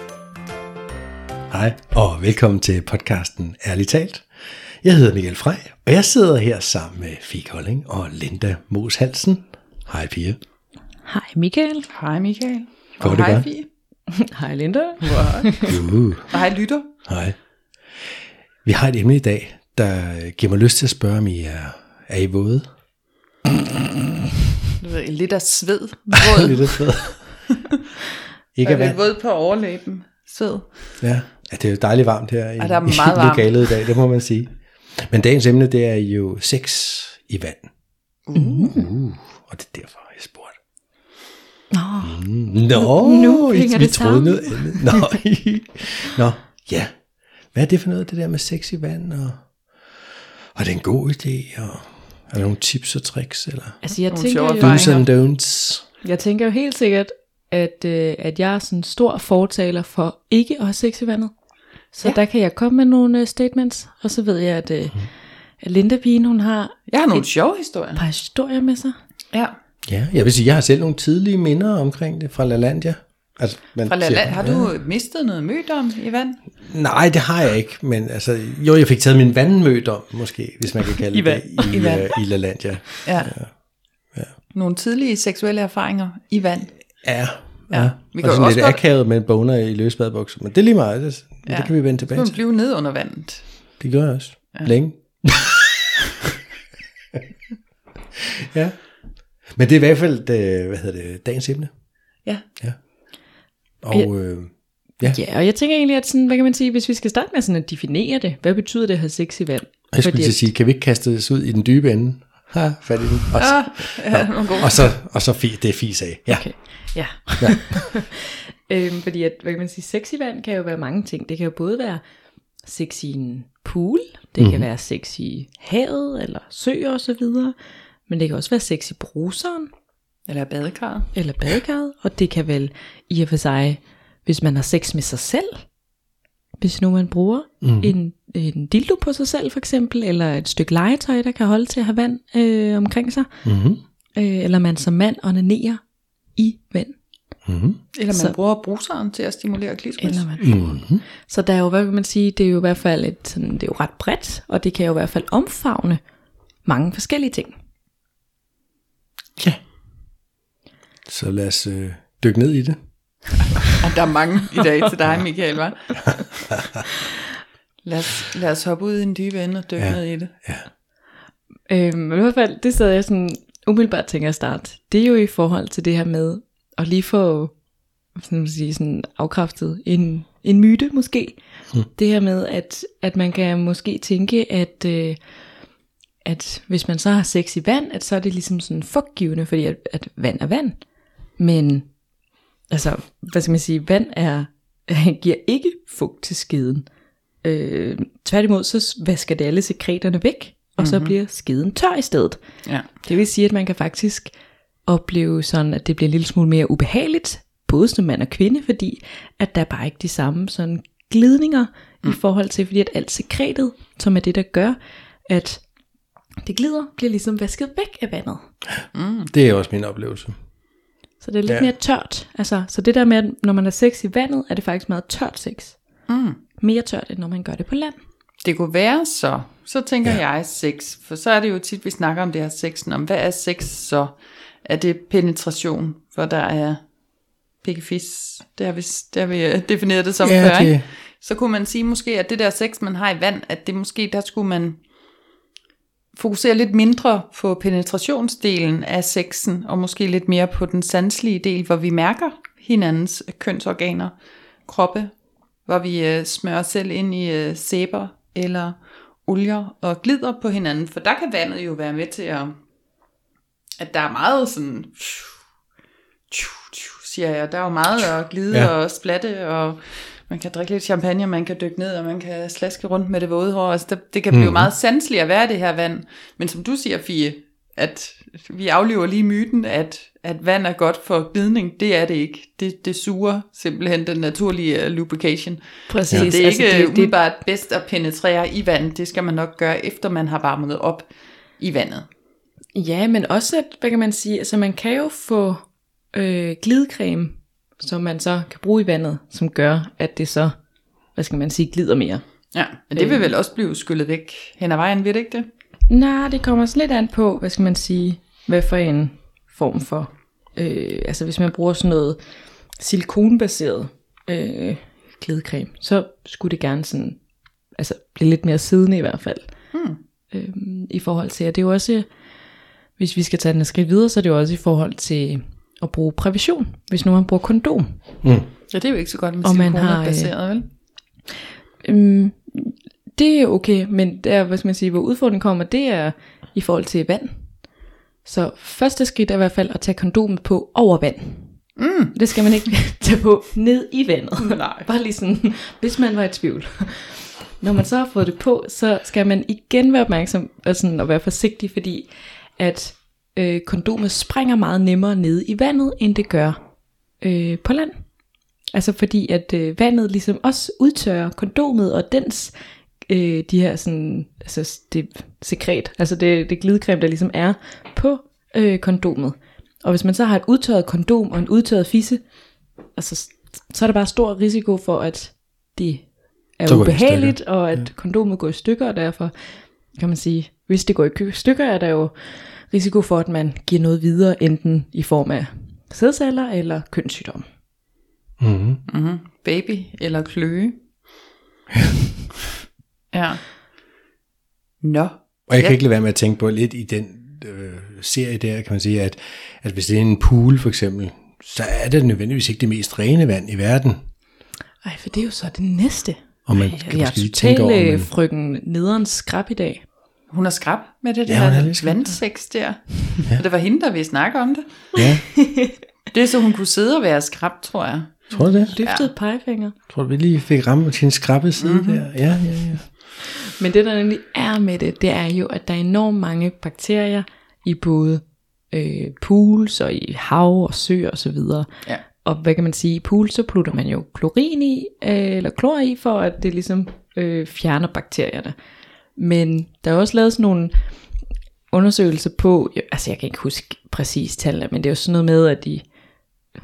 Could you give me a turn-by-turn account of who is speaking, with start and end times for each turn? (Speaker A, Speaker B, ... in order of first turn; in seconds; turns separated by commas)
Speaker A: 1.5-10.4, Speaker B: 11.1-11.9, Speaker C: 11.9-13.7, Speaker A: 13.0-13.5, Speaker B: 14.1-15.7, Speaker C: 15.0-16.9, Speaker A: 15.7-16.3, Speaker A: 17.0-17.4, Speaker A: 17.9-22.7, Speaker C: 24.8-27.3, Speaker A: 26.4-27.5, Speaker A: 28.5-29.0, Speaker C: 28.6-31.0, Speaker A: 31.0-37.7, Speaker C: 32.6-33.9, Speaker A: 38.3-40.6, Speaker B: 38.3-38.8, Speaker B: 41.7-45.0, Speaker A: 42.0-53.8, Speaker B: 53.8-54.9, Speaker C: 54.1-55.0, Speaker A: 54.6-55.9, Speaker B: 56.0-67.2, Speaker C: 66.9-68.0, Speaker B: 68.0-69.0, Speaker A: 69.8-74.7, Speaker C: 73.8-76.4, Speaker A: 76.6-83.5, Speaker B: 81.1-81.8, Speaker C: 81.7-82.4, Speaker C: 83.0-83.3, Speaker C: 84.5-88.8, Speaker A: 87.0-92.4, Speaker C: 91.5-93.5, Speaker A: 93.8-95.9, Speaker A: 98.4-101.8, Speaker A: 103.8-105.2, Speaker B: 105.0-110.5, Speaker A: 109.9-117.6, Speaker C: 113.3-114.9, Speaker B: 116.3-122.0, Speaker B: 122.6-127.5, Speaker A: 124.4-124.7, Speaker B: 128.1-129.7, Speaker C: 130.3-131.1, Speaker B: 131.1-135.7, Speaker B: 136.6-143.3, Speaker A: 137.6-137.9, Speaker A: 143.4-143.8, Speaker B: 144.2-147.0, Speaker A: 147.4-147.8, Speaker C: 147.9-150.3, Speaker B: 150.0-156.0, Speaker A: 150.4-151.0, Speaker B: 156.6-157.5, Speaker A: 161.1-162.8, Speaker C: 163.8-166.5, Speaker C: 167.8-170.3, Speaker A: 169.8-170.7, Speaker B: 171.7-177.6, Speaker B: 178.1-185.2, Speaker B: 186.2-192.0, Speaker B: 192.7-196.9, Speaker B: 197.4-204.3, Speaker C: 200.8-201.1, Speaker B: 204.8-215.7, Speaker B: 216.4-218.5, Speaker A: 218.8-220.7, Speaker C: 218.9-219.3, Speaker B: 221.2-226.1, Speaker A: 221.4-221.7, Speaker C: 226.1-226.4, Speaker B: 226.6-228.0, Speaker C: 228.4-236.9, Speaker C: 237.6-244.8, Speaker A: 240.2-240.8, Speaker C: 246.1-255.1, Speaker C: 255.7-262.6, Speaker C: 263.8-265.3, Speaker C: 266.3-292.1, Speaker A: 274.3-274.7, Speaker B: 285.9-287.1, Speaker B: 292.7-300.6, Speaker B: 301.1-302.2, Speaker C: 302.5-305.5, Speaker B: 302.9-303.3, Speaker B: 305.9-312.2, Speaker B: 312.8-319.5, Speaker C: 319.7-320.0, Speaker B: 320.3-322.1, Speaker B: 323.0-328.0, Speaker A: 328.2-328.5, Speaker C: 328.7-330.7, Speaker B: 329.4-330.3, Speaker B: 331.8-337.7, Speaker B: 338.2-358.2, Speaker C: 341.8-342.1, Speaker C: 344.4-344.9, Speaker B: 358.7-372.4, Speaker B: 372.9-387.5, Speaker A: 376.6-377.9, Speaker A: 388.4-388.8, Speaker C: 388.9-390.8, Speaker C: 393.1-393.5, Speaker C: 394.8-395.8, Speaker A: 395.5-404.0, Speaker B: 404.8-409.8, Speaker A: 406.5-408.1, Speaker C: 410.3-414.9, Speaker A: 411.2-412.2, Speaker A: 414.9-415.2, Speaker B: 415.4-415.7, Speaker C: 416.1-419.1, Speaker A: 418.3-418.7, Speaker B: 418.7-419.7, Speaker A: 419.9-423.1, Speaker C: 421.6-422.1, Speaker B: 423.2-438.6, Speaker B: 439.1-440.9, Speaker B: 441.7-445.8